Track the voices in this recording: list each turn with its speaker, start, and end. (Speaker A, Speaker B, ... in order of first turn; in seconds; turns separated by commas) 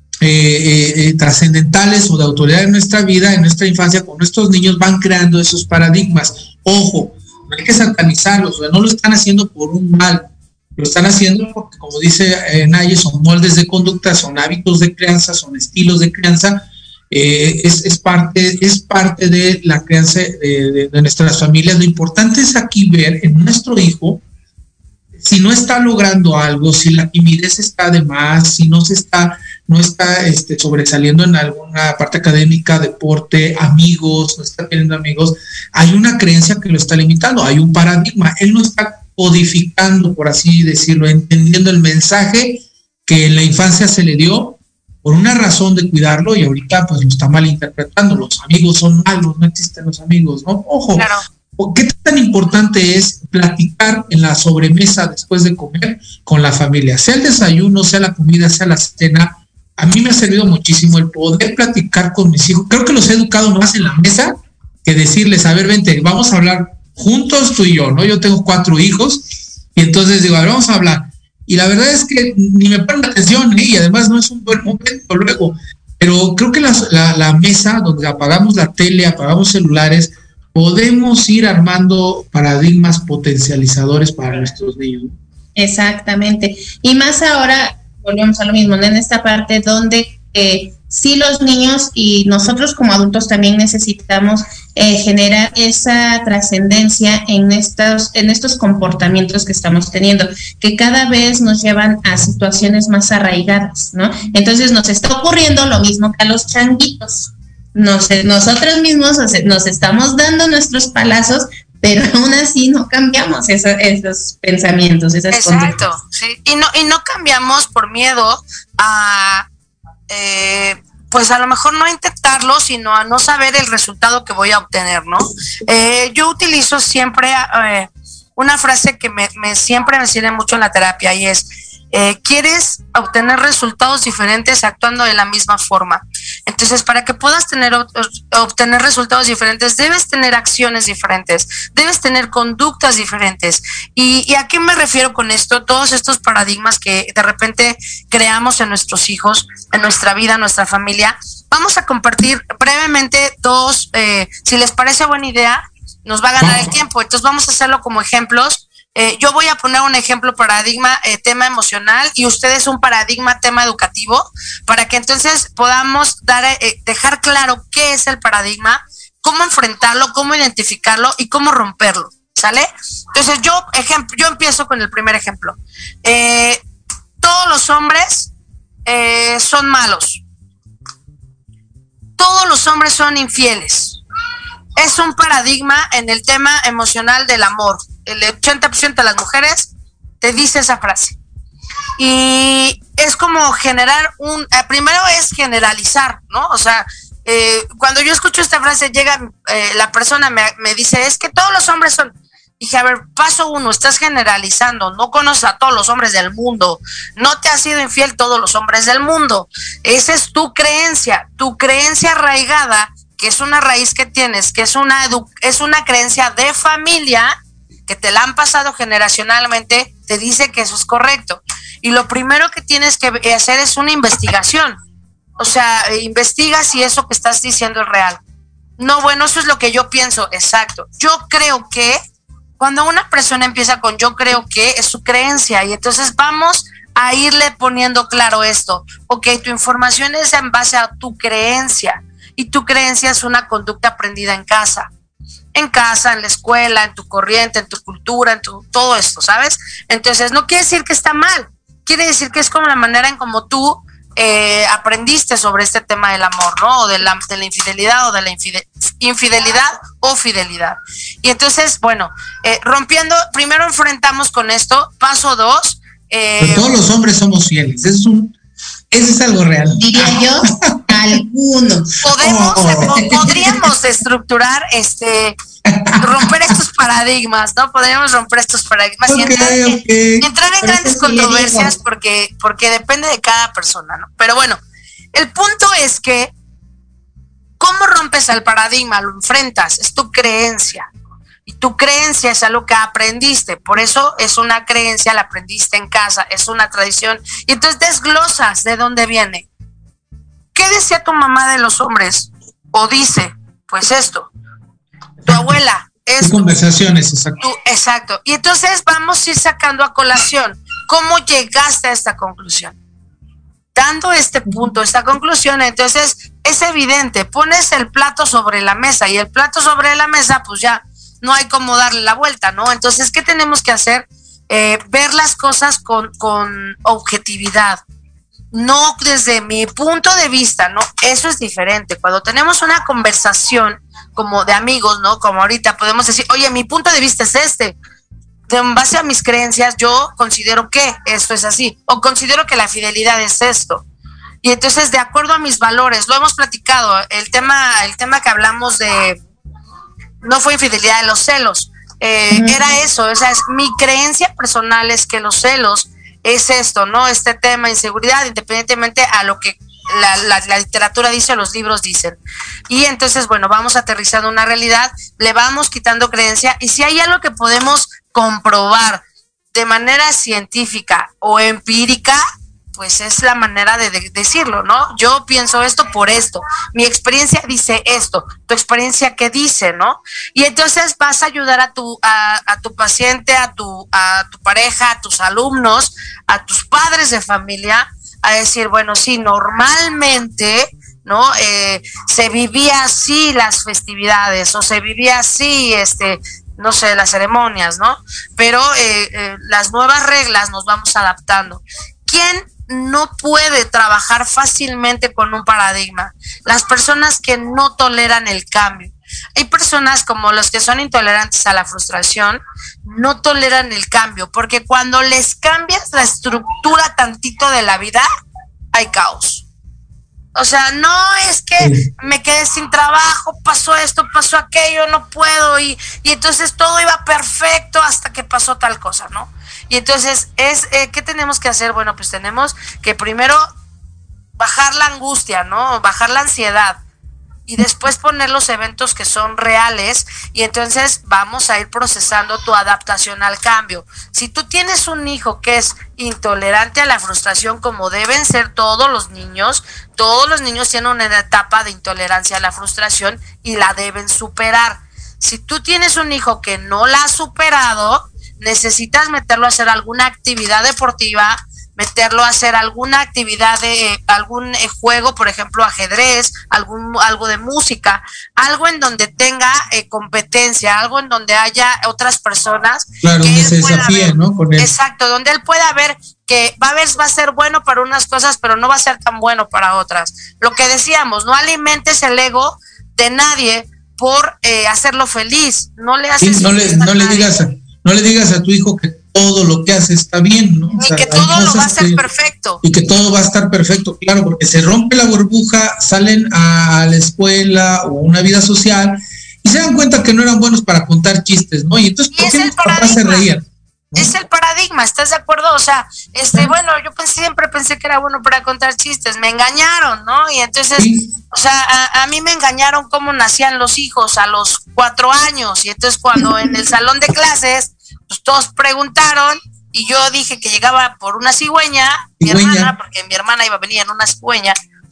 Speaker A: 0.2-24.2, Speaker A: 25.2-85.2, Speaker B: 51.0-51.2, Speaker C: 85.6-115.8, Speaker B: 115.3-119.5, Speaker B: 120.1-176.6, Speaker A: 156.4-156.8, Speaker B: 177.2-178.3, Speaker B: 178.9-180.2, Speaker B: 182.2-184.0, Speaker B: 184.8-191.2, Speaker B: 192.0-217.3, Speaker B: 217.9-224.8, Speaker B: 225.4-228.2, Speaker B: 228.8-232.0, Speaker B: 232.6-244.9, Speaker B: 245.5-266.7, Speaker A: 266.4-268.4, Speaker A: 268.9-270.7, Speaker C: 269.8-271.9, Speaker B: 272.0-275.4, Speaker A: 272.2-273.5, Speaker C: 272.8-273.4, Speaker A: 275.7-276.5, Speaker B: 276.0-284.6, Speaker A: 279.1-280.3, Speaker C: 280.6-281.7, Speaker B: 285.1-286.3, Speaker B: 287.6-290.9, Speaker B: 291.5-299.5, Speaker B: 300.6-304.3, Speaker A: 305.2-305.5, Speaker B: 305.3-306.5, Speaker A: 306.2-307.4, Speaker B: 307.4-312.8, Speaker B: 313.8-327.8, Speaker B: 328.5-337.8, Speaker B: 338.5-343.8, Speaker B: 344.4-349.2, Speaker B: 350.2-369.0, Speaker C: 352.3-352.6, Speaker B: 369.5-372.2, Speaker B: 372.8-418.1, Speaker B: 418.7-419.4, Speaker B: 420.4-433.4, Speaker A: 421.6-421.9, Speaker B: 434.4-436.8, Speaker B: 437.5-487.3, Speaker A: 473.0-474.7, Speaker A: 486.2-492.0, Speaker B: 490.8-492.6, Speaker A: 492.6-504.1, Speaker B: 502.1-503.3, Speaker B: 503.9-524.5, Speaker A: 510.8-511.1, Speaker C: 516.2-516.5, Speaker A: 522.2-522.7